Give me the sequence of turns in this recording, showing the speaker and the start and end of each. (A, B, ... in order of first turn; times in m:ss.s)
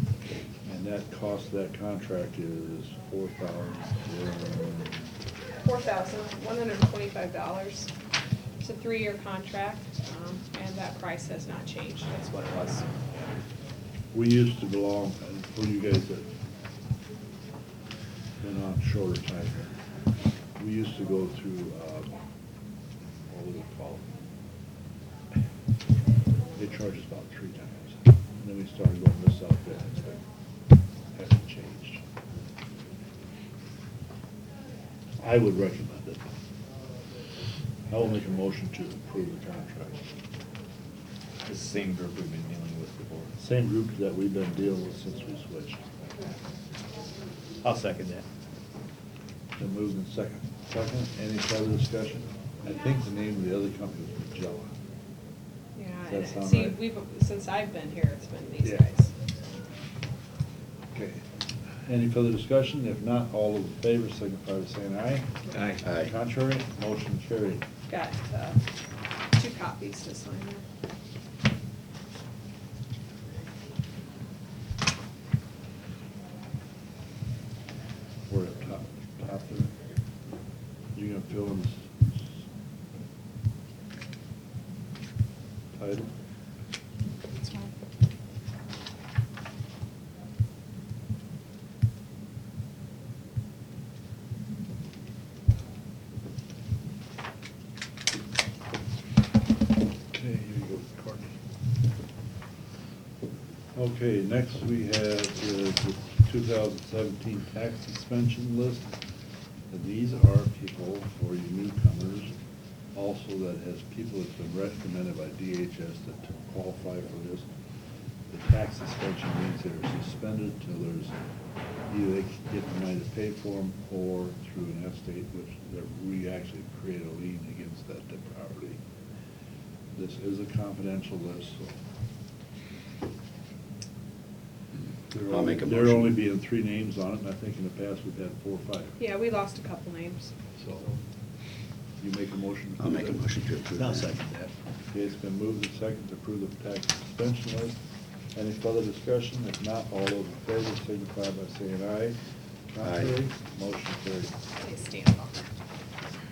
0:00.6-0:05.1 A
0:05.6-0:07.9 B
0:08.6-0:12.9 B
0:14.1-0:16.3 A
0:18.4-0:19.7 A
0:20.6-0:22.1 A
0:23.3-0:24.0 A
0:26.6-0:30.2 A
0:31.1-0:32.0 A
0:35.2-0:36.3 A
0:37.9-0:40.0 A
0:41.4-0:43.3 C
0:43.4-0:45.8 A
0:47.6-0:48.2 C
0:49.6-0:54.7 A
0:55.7-0:59.1 B
0:56.0-0:56.8 A
1:00.9-1:01.2 A
1:01.8-1:07.6 A
1:05.5-1:05.9 C
1:05.8-1:06.1 D
1:07.9-1:08.6 B
1:09.3-1:10.6 B
1:18.3-1:19.7 A
1:20.9-1:22.1 A
1:25.7-1:26.1 A
1:27.3-1:27.7 B
1:40.1-1:41.3 A
1:43.7-1:48.9 A
1:49.7-1:52.3 A
1:52.9-1:57.5 A
1:58.3-2:01.1 A
2:01.9-2:08.8 A
2:09.9-2:11.8 A
2:15.1-2:19.0 A
2:15.2-2:16.2 D
2:19.0-2:20.3 B
2:20.6-2:20.9 A
2:22.0-2:23.2 A
2:22.8-2:24.2 D
2:23.7-2:24.5 C
2:24.9-2:27.8 A
2:28.3-2:32.2 A
2:32.7-2:34.4 A
2:32.8-2:33.2 D
2:34.6-2:35.5 B